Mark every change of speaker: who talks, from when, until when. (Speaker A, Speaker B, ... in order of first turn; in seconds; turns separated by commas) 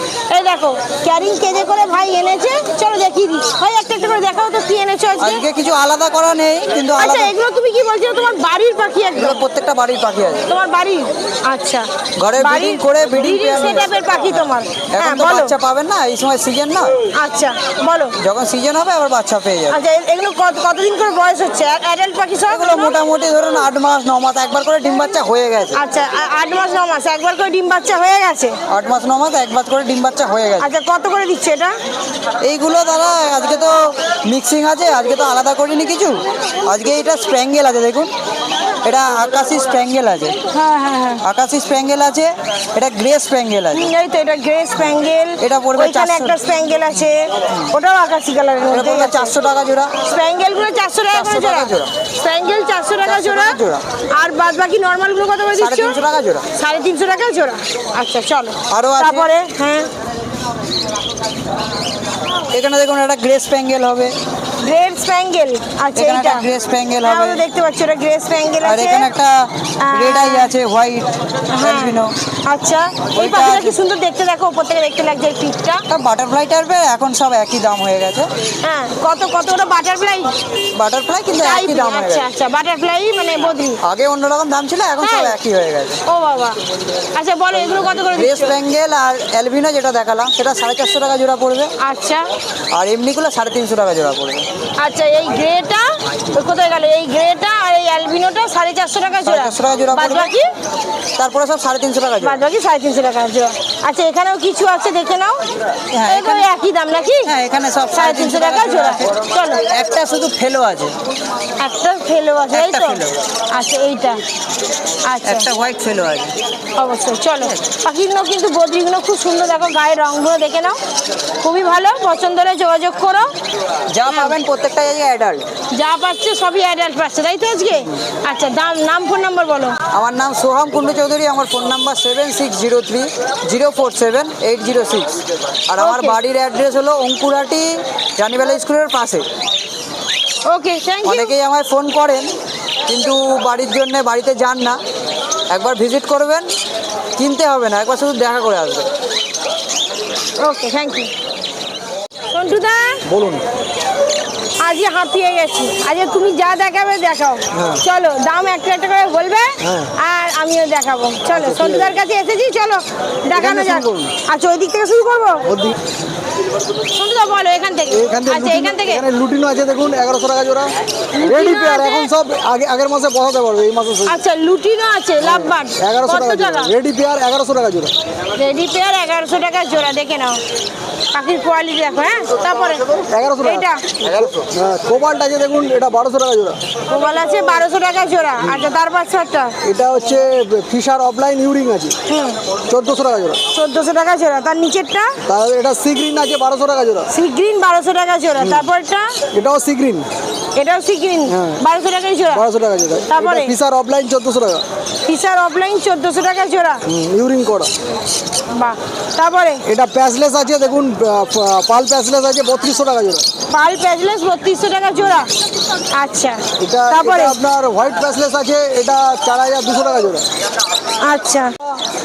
Speaker A: 0.3-5.4, Speaker B: 5.2-7.3, Speaker A: 7.0-9.4, Speaker B: 9.1-10.5, Speaker A: 10.5-15.5, Speaker B: 12.2-13.9, Speaker B: 14.9-16.9, Speaker A: 17.1-18.1, Speaker B: 18.2-19.8, Speaker A: 19.7-22.9, Speaker B: 22.5-25.8, Speaker A: 25.7-28.6, Speaker B: 28.7-30.7, Speaker A: 30.6-31.7, Speaker B: 32.4-38.1, Speaker B: 38.8-40.4, Speaker A: 40.5-41.2, Speaker B: 41.2-43.9, Speaker A: 43.7-49.3, Speaker B: 45.4-46.4, Speaker B: 48.7-49.9, Speaker A: 50.0-53.6, Speaker B: 51.1-51.9, Speaker B: 53.0-53.8, Speaker A: 54.1-56.0, Speaker B: 55.5-56.4, Speaker A: 56.5-59.9, Speaker B: 58.7-59.3, Speaker B: 62.5-64.1, Speaker A: 64.6-66.5, Speaker B: 65.9-67.4, Speaker A: 67.0-69.1, Speaker B: 68.6-72.1, Speaker A: 69.8-70.5, Speaker A: 71.5-75.8, Speaker B: 73.1-73.8, Speaker B: 75.9-78.3, Speaker A: 78.6-80.3, Speaker B: 80.7-82.2, Speaker A: 81.4-83.8, Speaker B: 83.8-86.0, Speaker A: 85.0-85.4, Speaker A: 86.1-86.6, Speaker A: 87.1-88.6, Speaker B: 87.9-91.7, Speaker A: 91.8-92.2, Speaker B: 92.7-94.4, Speaker A: 94.8-100.5, Speaker B: 99.2-100.3, Speaker B: 101.2-102.4, Speaker A: 102.2-105.4, Speaker B: 105.9-106.5, Speaker A: 106.0-107.3, Speaker B: 107.2-110.9, Speaker A: 107.9-109.6, Speaker A: 111.6-114.2, Speaker B: 112.5-113.2, Speaker A: 115.0-115.5, Speaker B: 115.2-116.3, Speaker A: 116.8-120.8, Speaker A: 121.4-123.3, Speaker B: 123.9-125.4, Speaker A: 124.0-124.4, Speaker A: 125.7-129.8, Speaker B: 129.9-135.1, Speaker B: 135.7-139.2, Speaker A: 135.8-136.2, Speaker A: 140.4-141.3, Speaker B: 141.0-142.3, Speaker B: 142.9-144.8, Speaker B: 145.5-146.5, Speaker B: 147.2-148.8, Speaker A: 150.4-151.1, Speaker A: 152.3-153.0, Speaker C: 153.1-153.4, Speaker A: 154.6-165.4, Speaker C: 159.6-159.9, Speaker C: 161.3-161.9, Speaker C: 163.3-164.1, Speaker C: 165.5-165.7, Speaker A: 166.9-169.0, Speaker C: 167.9-170.7, Speaker A: 171.1-172.1, Speaker C: 171.2-174.2, Speaker A: 174.1-176.7, Speaker C: 175.2-177.9, Speaker A: 178.3-180.4, Speaker A: 181.1-182.8, Speaker C: 183.1-186.6, Speaker A: 183.4-183.8, Speaker A: 186.9-189.5, Speaker C: 189.6-191.9, Speaker A: 192.1-192.4, Speaker C: 192.7-193.4, Speaker A: 193.5-195.1, Speaker C: 195.3-197.1, Speaker A: 197.1-199.1, Speaker C: 198.4-198.6, Speaker C: 199.3-200.1, Speaker A: 200.6-202.4, Speaker C: 201.3-201.6, Speaker C: 202.3-204.6, Speaker A: 203.1-203.5, Speaker A: 205.0-206.8, Speaker C: 206.9-207.7, Speaker A: 208.5-209.6, Speaker C: 209.7-213.2, Speaker A: 213.5-215.3, Speaker A: 215.9-217.4, Speaker C: 216.6-220.2, Speaker A: 221.0-221.5